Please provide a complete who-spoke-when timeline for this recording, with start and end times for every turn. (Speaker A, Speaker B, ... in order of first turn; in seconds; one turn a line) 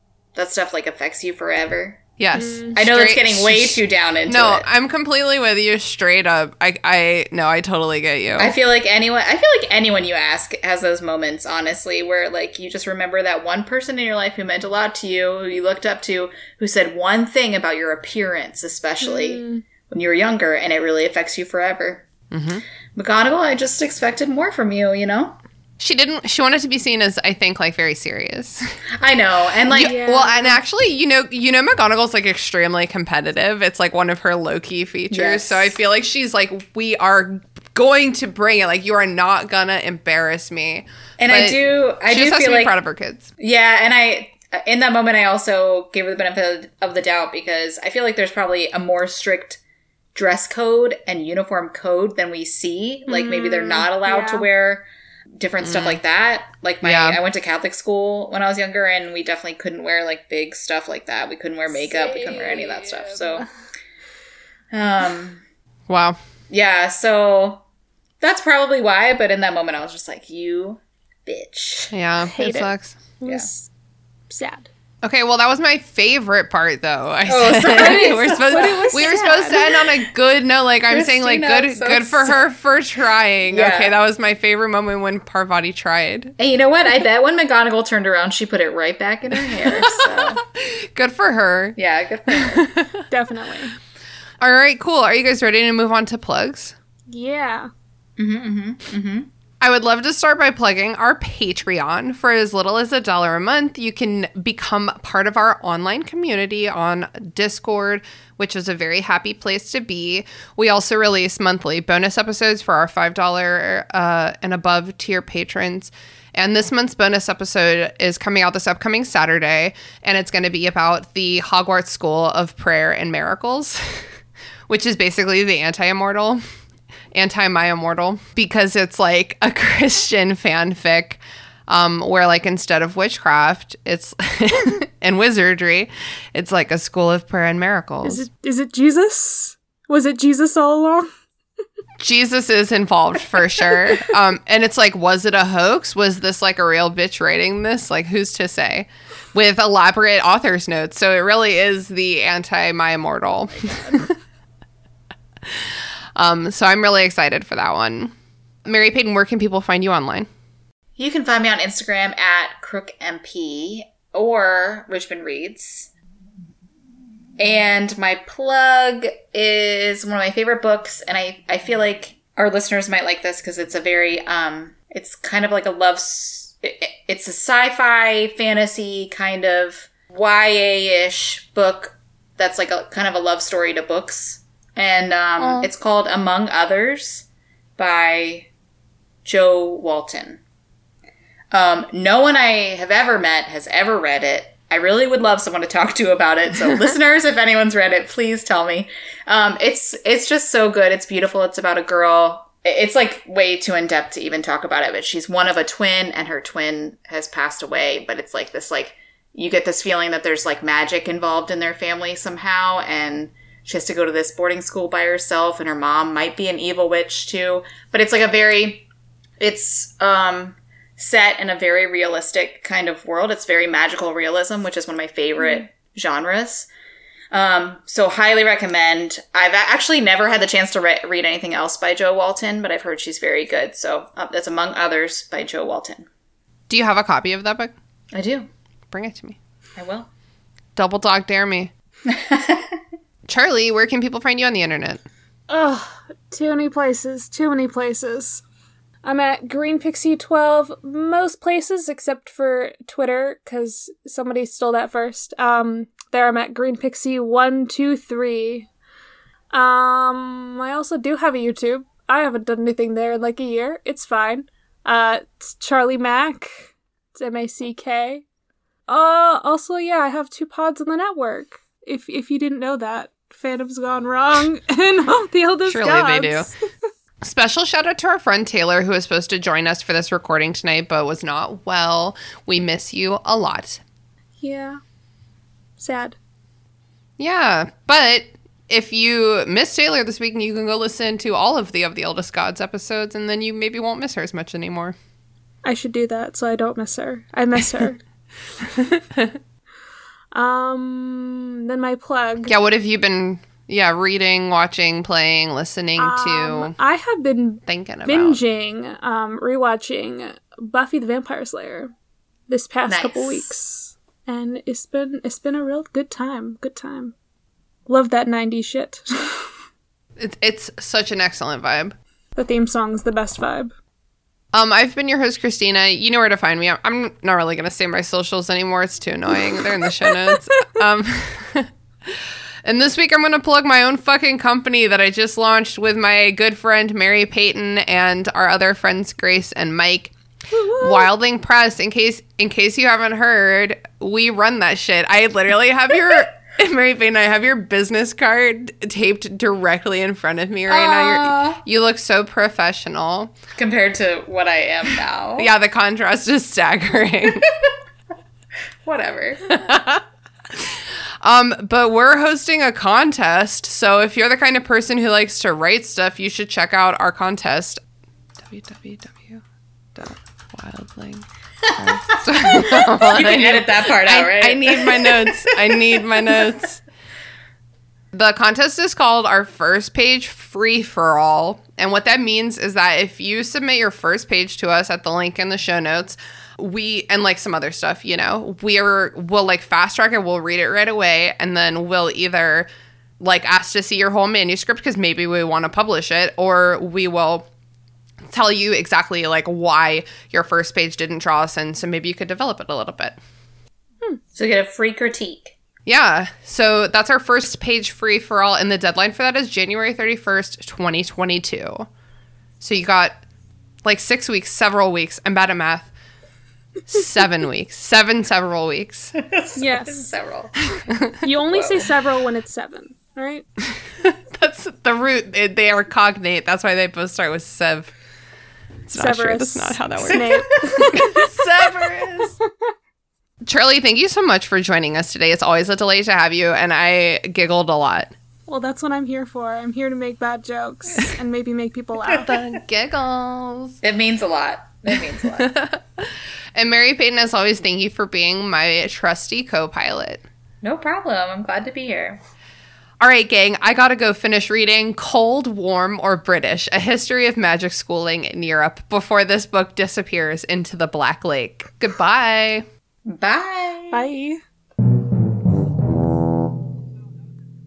Speaker A: 0.3-2.0
Speaker B: 2.2-8.5
Speaker C: 2.3-2.7
Speaker A: 2.7-4.7
Speaker A: 8.4-22.1
Speaker C: 19.0-19.6
Speaker B: 22.3-22.6
Speaker A: 22.9-25.4
Speaker B: 25.8-28.8
Speaker A: 29.0-30.1
Speaker B: 29.7-43.3
Speaker C: 29.8-30.6
Speaker A: 35.1-35.8
Speaker A: 41.2-42.7
Speaker A: 43.4-49.6
Speaker A: 50.1-54.9
Speaker C: 53.1-54.5
Speaker A: 55.4-63.5
Speaker B: 55.6-56.0
Speaker B: 56.8-57.2
Speaker C: 61.7-63.5
Speaker A: 64.7-65.4
Speaker B: 65.9-66.2
Speaker A: 66.5-67.6
Speaker A: 68.2-72.0
Speaker B: 71.9-73.0
Speaker C: 72.2-73.7
Speaker C: 74.3-74.7
Speaker B: 75.0-86.3
Speaker A: 77.3-79.8
Speaker C: 77.7-79.6
Speaker A: 80.9-82.5
Speaker A: 83.5-84.0
Speaker A: 86.4-90.4
Speaker B: 89.5-91.8
Speaker A: 91.8-92.7
Speaker B: 92.3-93.0
Speaker C: 93.1-93.7
Speaker B: 94.4-96.7
Speaker C: 97.1-97.7
Speaker A: 98.2-99.3
Speaker B: 99.6-124.0
Speaker B: 124.7-126.4
Speaker B: 127.1-138.2
Speaker C: 138.0-141.1
Speaker B: 142.0-154.1
Speaker C: 153.5-154.0
Speaker B: 155.5-158.1
Speaker B: 158.7-160.3
Speaker A: 160.9-165.9
Speaker A: 167.4-187.3
Speaker B: 185.4-185.7
Speaker A: 187.8-188.5
Speaker A: 189.2-190.4
Speaker A: 191.5-218.9
Speaker A: 219.4-226.7
Speaker A: 227.3-236.1
Speaker B: 236.7-237.7
Speaker A: 238.1-238.5
Speaker B: 238.9-239.4
Speaker A: 239.8-240.1
Speaker B: 240.8-241.7
Speaker A: 242.1-242.8
Speaker B: 243.3-245.0
Speaker C: 245.5-248.4
Speaker C: 249.0-258.7
Speaker C: 259.5-268.2
Speaker C: 268.9-276.7
Speaker B: 275.7-276.5
Speaker B: 277.2-283.8
Speaker C: 284.4-284.8
Speaker C: 285.8-286.2
Speaker B: 287.2-294.9
Speaker C: 295.6-298.0
Speaker B: 298.7-299.4
Speaker C: 300.3-302.5
Speaker B: 302.4-306.7
Speaker C: 306.0-311.9
Speaker B: 307.7-308.4
Speaker C: 312.5-317.1
Speaker A: 312.9-313.5
Speaker C: 317.9-319.5
Speaker B: 320.2-321.9
Speaker C: 322.4-323.7
Speaker B: 324.5-340.1
Speaker C: 340.5-341.1
Speaker B: 340.8-353.3
Speaker A: 350.7-351.6
Speaker A: 353.6-355.5
Speaker B: 355.4-357.4
Speaker A: 358.8-359.5
Speaker B: 359.4-367.8
Speaker B: 368.4-369.4
Speaker B: 369.9-376.8
Speaker A: 372.3-376.3
Speaker B: 378.1-392.7
Speaker B: 393.2-397.5
Speaker B: 398.3-403.2
Speaker A: 404.3-405.6
Speaker B: 405.9-411.9
Speaker B: 412.6-413.2
Speaker B: 413.8-415.9
Speaker B: 416.9-419.1
Speaker A: 419.2-420.6
Speaker C: 419.6-420.1
Speaker C: 421.2-423.4
Speaker A: 421.5-421.8
Speaker B: 424.0-427.9
Speaker B: 428.9-432.3
Speaker C: 428.9-431.3
Speaker B: 433.4-438.1
Speaker C: 438.5-442.3
Speaker B: 442.2-443.8
Speaker A: 443.8-445.5
Speaker B: 445.2-450.2
Speaker A: 450.6-452.2
Speaker B: 453.0-462.7
Speaker A: 463.1-464.1
Speaker C: 463.9-464.4